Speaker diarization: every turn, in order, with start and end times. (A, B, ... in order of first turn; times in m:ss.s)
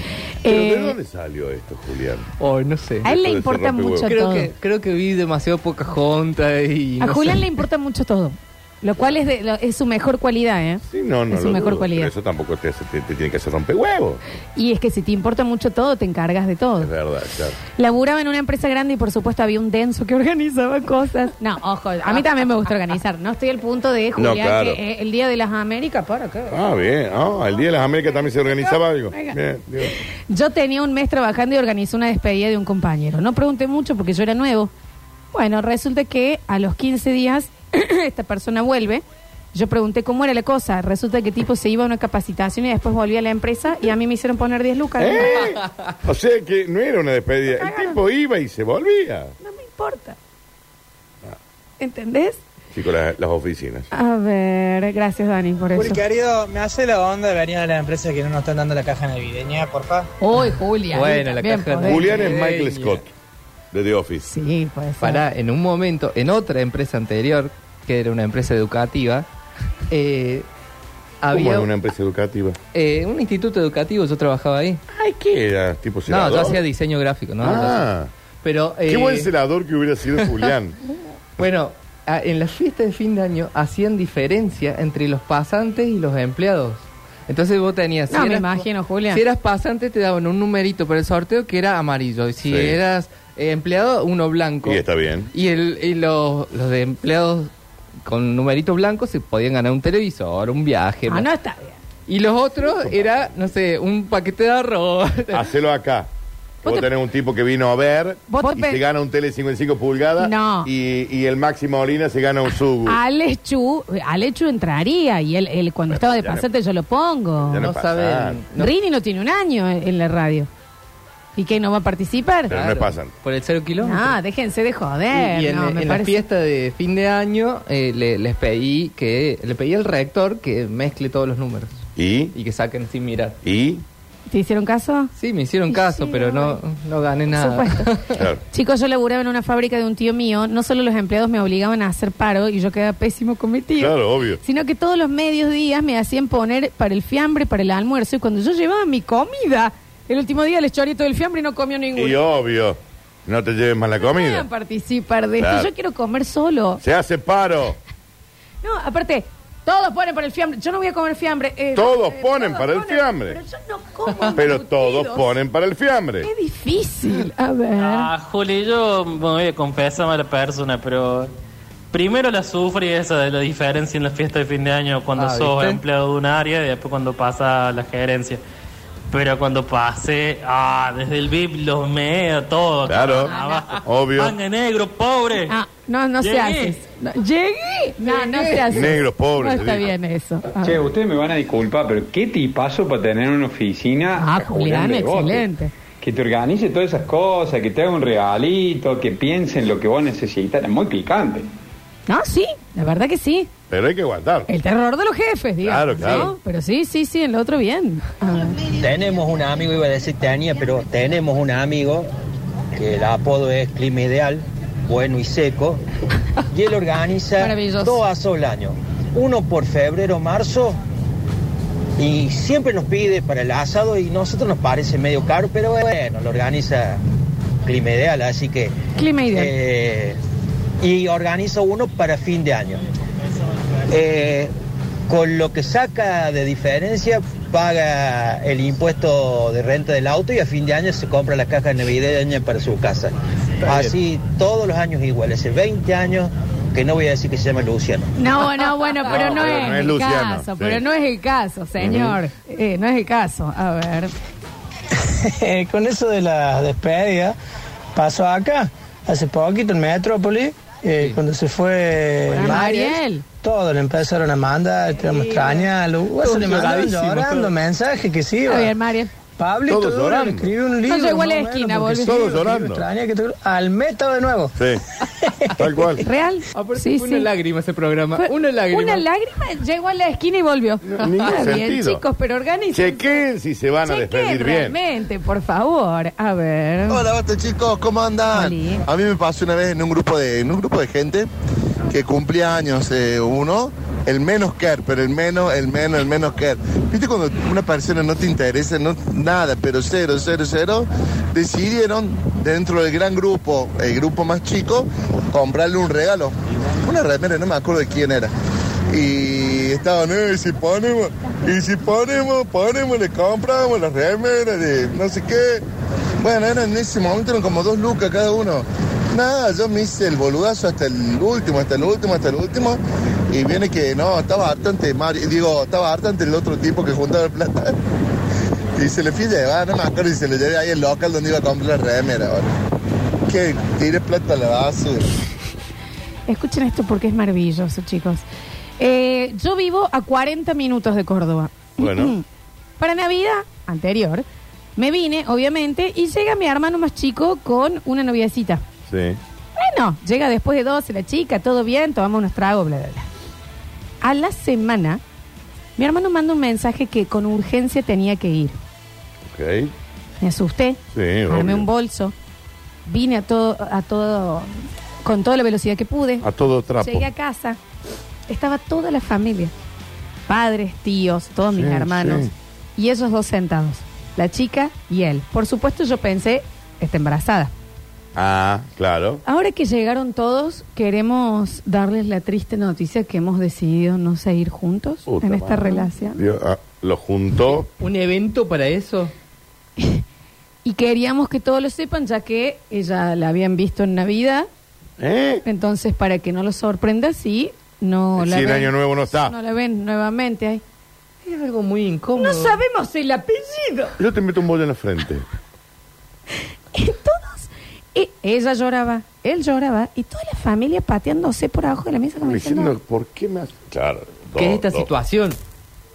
0:00.4-0:00.9 A
0:00.4-0:02.3 B
0:02.4-0:03.1 C
0:03.0-0:04.1 B
0:03.0-0:04.5 A
0:04.0-0:07.5 C
0:07.0-0:12.1 A
0:10.9-0:14.2 B
0:14.6-0:16.9 A
0:16.8-0:17.6 B
0:17.7-0:26.6 A
0:24.2-0:24.8 B
0:26.5-0:30.0 B
0:28.4-0:29.4 A
0:29.9-0:34.7 A
0:35.3-0:45.5 A
0:45.0-0:49.3 B
0:45.4-0:45.9 C
0:47.6-0:48.0 A
0:49.4-0:50.2 A
0:51.8-0:52.4 A
0:52.7-0:53.9 B
0:53.9-0:56.0 A
0:55.7-1:00.1 D
1:00.2-1:02.1 A
1:00.9-1:03.0 C
1:01.8-1:03.1 B
1:03.7-1:04.3 B
1:04.2-1:05.2 A
1:05.0-1:09.2 C
1:09.9-1:10.4 C
1:11.2-1:11.7 C
1:11.3-1:12.6 B
1:12.7-1:14.8 C
1:14.9-1:16.6 B
1:16.1-1:17.9 C
1:17.4-1:18.1 B
1:18.4-1:19.3 C
1:18.8-1:20.8 B
1:21.4-1:37.5 C
1:28.1-1:29.2 A
1:32.4-1:32.8 B
1:34.6-1:35.3 B
1:38.0-1:41.2 C
1:41.1-1:41.8 A
1:42.1-1:45.4 C
1:42.6-1:43.3 B
1:45.3-1:46.1 B
1:46.6-1:53.0 B
1:48.3-1:48.8 A
1:50.2-1:50.7 A
1:52.8-1:57.7 A
1:55.9-1:56.5 B
1:57.4-1:58.4 B
1:57.6-1:58.7 C
1:58.6-2:00.5 A
2:01.4-2:02.5 A
2:02.5-2:03.1 B
2:02.5-2:04.2 C
2:03.8-2:06.2 A
2:05.1-2:11.8 C
2:12.0-2:12.3 B
2:12.3-2:13.4 C
2:13.4-2:13.8 B
2:14.3-2:15.1 A
2:15.2-2:18.2 C
2:15.7-2:16.6 A
2:17.3-2:17.9 A
2:18.1-2:18.4 B
2:18.5-2:32.2 A
2:23.8-2:24.4 B
2:31.9-2:34.5 B
2:34.0-2:36.8 A
2:35.4-2:35.7 B
2:36.8-2:37.8 B
2:38.6-2:45.3 A
2:41.7-2:43.4 B
2:44.1-2:44.4 C
2:44.3-2:46.3 B
2:46.2-2:48.1 A
2:47.8-2:51.3 E
2:51.9-2:58.4 E
2:55.2-2:55.8 C
2:59.1-3:05.5 E
3:02.9-3:03.3 B
3:03.3-3:03.6 A
3:03.8-3:04.4 B
3:05.5-3:10.8 A
3:06.2-3:06.8 E
3:08.1-3:08.7 C
3:08.6-3:09.9 B
3:10.6-3:15.5 F
3:14.2-3:15.7 A
3:16.0-3:21.5 F
3:22.1-3:23.5 A
3:23.7-3:24.5 B
3:24.5-3:28.6 A
3:25.6-3:26.3 B
3:28.8-3:32.1 G
3:32.7-3:35.8 G
3:36.5-3:40.8 G
3:37.4-3:38.0 A
3:42.0-3:47.0 G
3:47.6-3:48.7 G
3:49.0-3:49.5 A
3:49.3-3:50.2 G
3:50.8-3:52.8 G
3:53.9-3:54.5 G
3:55.1-4:08.1 G
4:08.2-4:14.1 A
4:09.0-4:10.8 B
4:11.8-4:12.2 B
4:15.2-4:17.3 H
4:17.9-4:28.7 H
4:22.3-4:23.2 A
4:26.2-4:27.5 C
4:28.4-4:29.1 A
4:29.4-4:35.5 H
4:29.7-4:30.5 B
4:30.8-4:32.2 A
4:31.9-4:32.9 B
4:34.6-4:34.8 B
4:35.6-4:36.0 B
4:36.0-4:37.3 A
4:36.5-4:39.0 C
4:38.2-4:43.2 A
4:40.8-4:42.0 B
4:42.7-4:44.8 B
4:43.8-4:47.1 A
4:46.9-4:51.3 I
4:48.3-4:48.8 A
4:51.9-5:08.3 I
5:08.9-5:15.6 I
5:16.2-5:22.8 I
5:23.3-5:27.7 I
5:28.8-5:32.5 I
5:33.3-5:35.1 I
5:36.3-5:38.2 A
5:38.8-5:42.2 A
5:41.8-5:42.2 B
5:42.8-5:44.2 A
5:44.8-5:48.6 A
5:48.9-5:49.2 B
5:49.6-5:53.1 A
5:54.0-5:55.0 A
5:55.8-5:58.6 A
5:59.2-5:59.7 B
6:00.2-6:02.1 A
6:00.9-6:01.7 B
6:02.8-6:04.5 A
6:05.0-6:06.3 A
6:06.2-6:07.1 B
6:06.8-6:07.6 A
6:08.3-6:09.5 A
6:10.3-6:17.5 A
6:11.5-6:12.3 B
6:18.1-6:19.2 B
6:19.2-6:26.2 A
6:25.0-6:27.7 B
6:27.8-6:29.1 C
6:29.8-6:30.0 A
6:30.6-6:34.5 A
6:35.0-6:35.4 B
6:35.4-6:40.6 A
6:38.2-6:39.3 B
6:41.2-6:42.6 C
6:42.2-6:43.9 A
6:44.0-6:45.2 B
6:46.7-6:52.7 A
6:52.2-6:54.9 B
6:54.3-6:55.4 C